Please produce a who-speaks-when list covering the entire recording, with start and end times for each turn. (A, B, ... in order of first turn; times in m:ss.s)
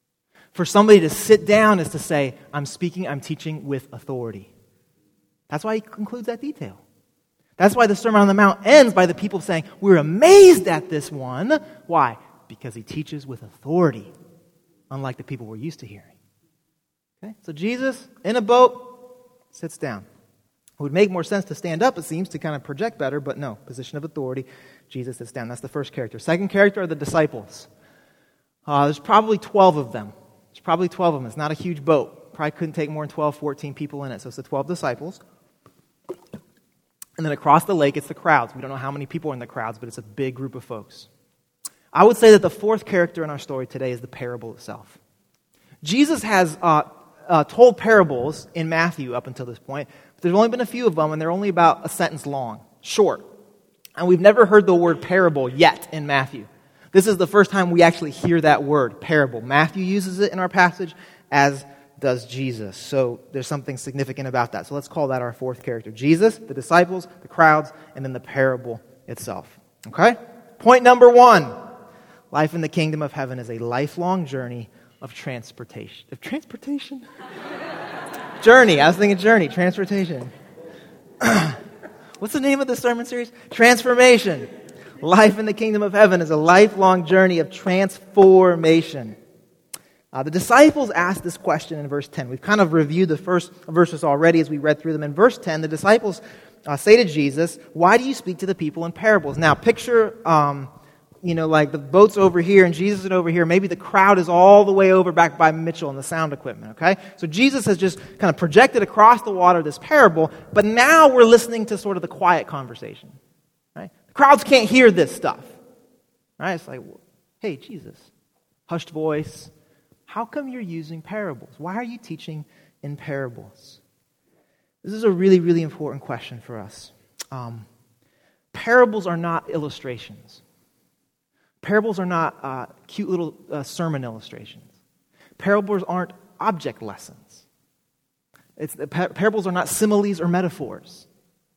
0:00.5-0:04.5 A
0:05.5-0:06.8 A
0:07.6-0:14.1 A
0:14.9-0:16.1 A
0:17.2-0:20.1 A
0:20.8-0:27.7 A
0:28.7-0:35.2 A
0:37.2-0:41.1 A
0:41.9-0:45.0 A
0:45.8-0:53.2 A
0:54.0-1:11.6 A
1:12.3-1:17.0 A
1:18.4-1:20.3 A
1:21.2-1:21.6 A
1:22.2-1:24.5 A
1:25.0-1:29.2 A
1:30.1-1:40.7 A
1:41.2-1:53.2 A
1:53.8-1:55.6 A
1:56.4-1:58.1 A
1:58.7-1:59.5 A
2:00.1-2:03.8 A
2:04.8-2:07.7 A
2:08.5-2:10.4 A
2:11.6-2:14.7 A
2:15.4-2:17.4 A
2:18.6-2:21.1 A